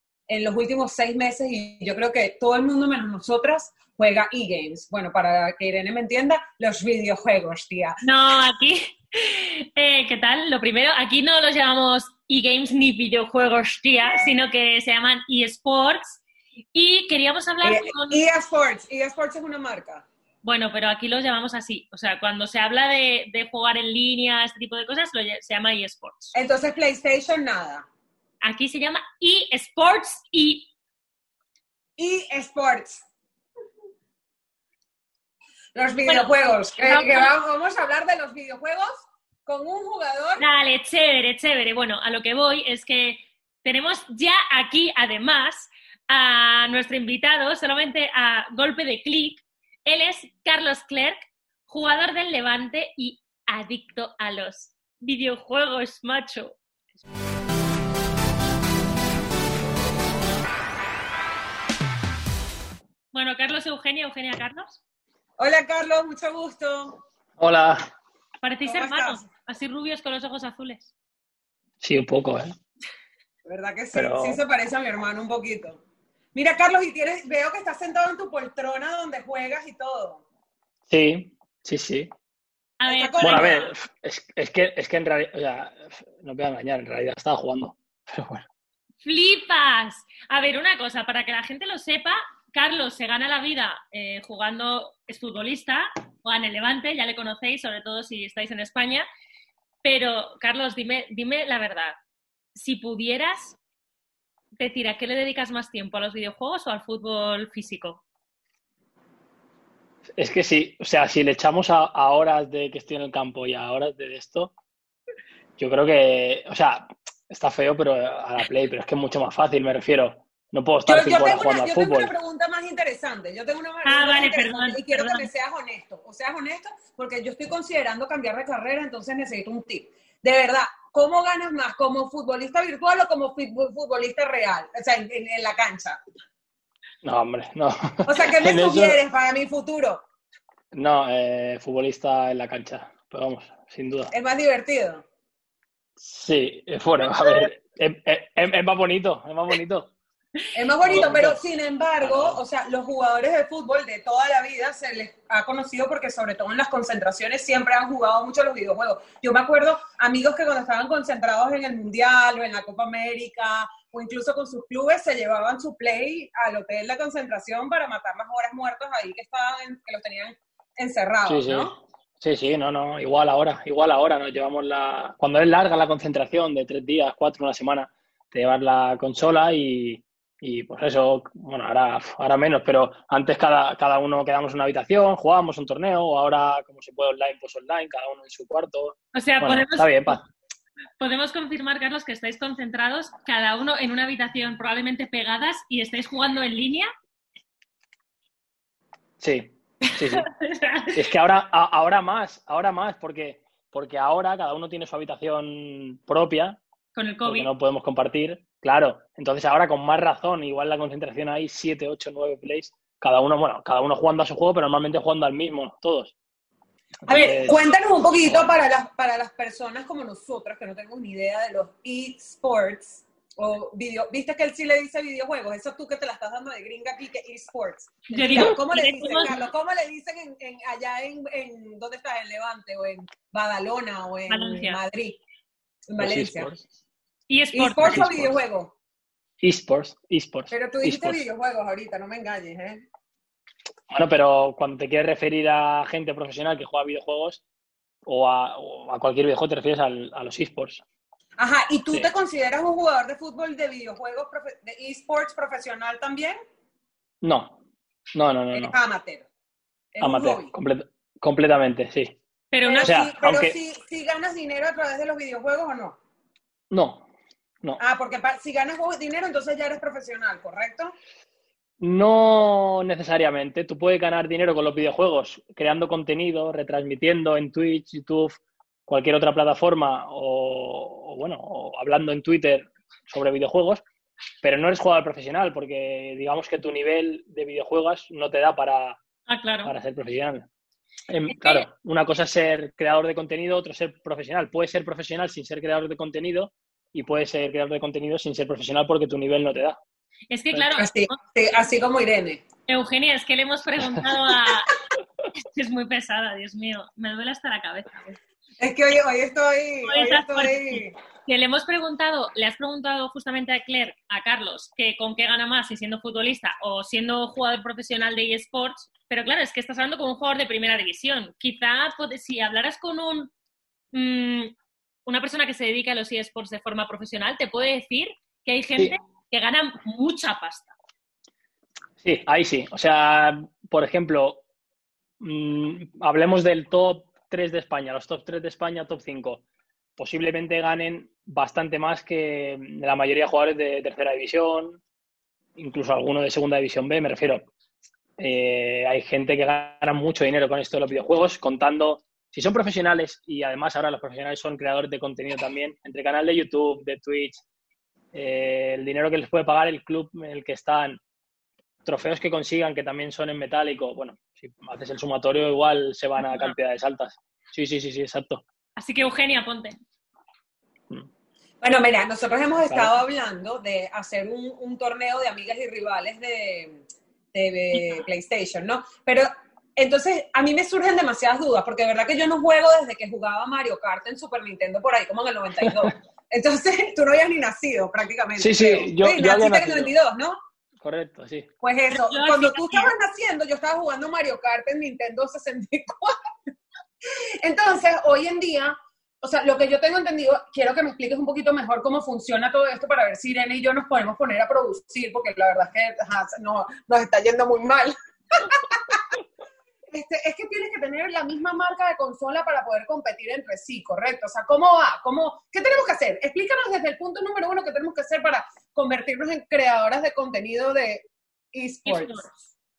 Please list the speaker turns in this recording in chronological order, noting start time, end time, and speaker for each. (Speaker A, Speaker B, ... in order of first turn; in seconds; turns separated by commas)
Speaker A: 0.3-8.0, Speaker B: 8.0-16.2, Speaker B: 16.7-18.2, Speaker A: 17.6-20.0, Speaker B: 20.4-26.3, Speaker A: 26.3-27.9, Speaker B: 28.4-30.7, Speaker A: 32.0-33.0, Speaker A: 35.7-40.4, Speaker B: 36.1-37.3, Speaker B: 40.4-56.6, Speaker B: 63.1-64.8, Speaker A: 65.4-67.0, Speaker C: 67.4-67.8, Speaker B: 68.4-70.9, Speaker A: 68.6-69.2, Speaker C: 71.8-72.5, Speaker A: 73.5-75.8, Speaker C: 73.9-74.4, Speaker A: 76.3-80.2, Speaker C: 80.9-82.1, Speaker B: 82.8-83.7, Speaker A: 82.8-83.7, Speaker C: 83.2-88.5, Speaker B: 89.0-99.0, Speaker B: 99.8-102.0, Speaker B: 102.5-103.6, Speaker B: 104.6-108.0, Speaker C: 110.2-114.5, Speaker C: 115.6-122.1, Speaker A: 120.9-136.0, Speaker B: 123.8-125.3, Speaker C: 137.0-139.0, Speaker A: 138.1-140.0, Speaker C: 140.7-144.1, Speaker A: 144.1-145.0, Speaker C: 146.0-149.9, Speaker A: 150.5-171.7, Speaker C: 150.8-151.4, Speaker C: 152.0-152.4, Speaker C: 171.2-190.2, Speaker B: 189.1-190.2, Speaker B: 191.0-196.9, Speaker C: 199.2-200.3, Speaker B: 199.9-201.0, Speaker C: 200.9-206.6, Speaker B: 206.9-207.5, Speaker C: 207.2-216.1, Speaker C: 217.1-217.6, Speaker A: 217.1-235.2, Speaker B: 228.1-229.3, Speaker B: 234.3-234.8, Speaker A: 235.9-236.5, Speaker C: 236.0-236.6, Speaker B: 237.3-238.1, Speaker A: 237.5-238.7, Speaker C: 237.8-238.4, Speaker C: 239.4-241.2, Speaker A: 240.5-242.8, Speaker C: 243.9-247.4, Speaker C: 248.0-250.8, Speaker A: 251.4-256.4, Speaker C: 257.2-257.6, Speaker C: 258.1-258.7, Speaker A: 258.5-259.2, Speaker A: 259.9-260.5, Speaker C: 260.0-262.2, Speaker B: 262.5-262.9, Speaker A: 262.6-266.0, Speaker C: 262.8-263.6, Speaker C: 266.7-267.0, Speaker A: 267.8-270.9, Speaker C: 271.8-283.8, Speaker C: 284.4-289.0, Speaker B: 289.3-289.7, Speaker C: 289.6-290.5, Speaker C: 291.1-299.8, Speaker B: 291.3-291.6, Speaker B: 300.3-301.1, Speaker A: 300.6-302.4, Speaker B: 302.7-304.8, Speaker B: 305.5-308.1, Speaker A: 308.6-310.9, Speaker B: 309.9-323.3, Speaker B: 323.9-324.5, Speaker B: 325.1-330.7, Speaker C: 332.0-334.4, Speaker C: 335.2-339.4, Speaker C: 340.0-344.8, Speaker C: 345.6-347.5, Speaker C: 348.2-357.4, Speaker C: 358.1-361.0, Speaker C: 361.8-368.4, Speaker B: 366.2-366.5, Speaker B: 368.8-369.8, Speaker A: 371.6-376.8, Speaker C: 372.6-372.9, Speaker A: 377.3-390.4, Speaker C: 388.4-389.9, Speaker C: 390.8-391.5, Speaker A: 391.6-396.2, Speaker B: 391.9-392.9, Speaker A: 397.4-409.0, Speaker A: 409.9-422.2, Speaker B: 421.9-422.3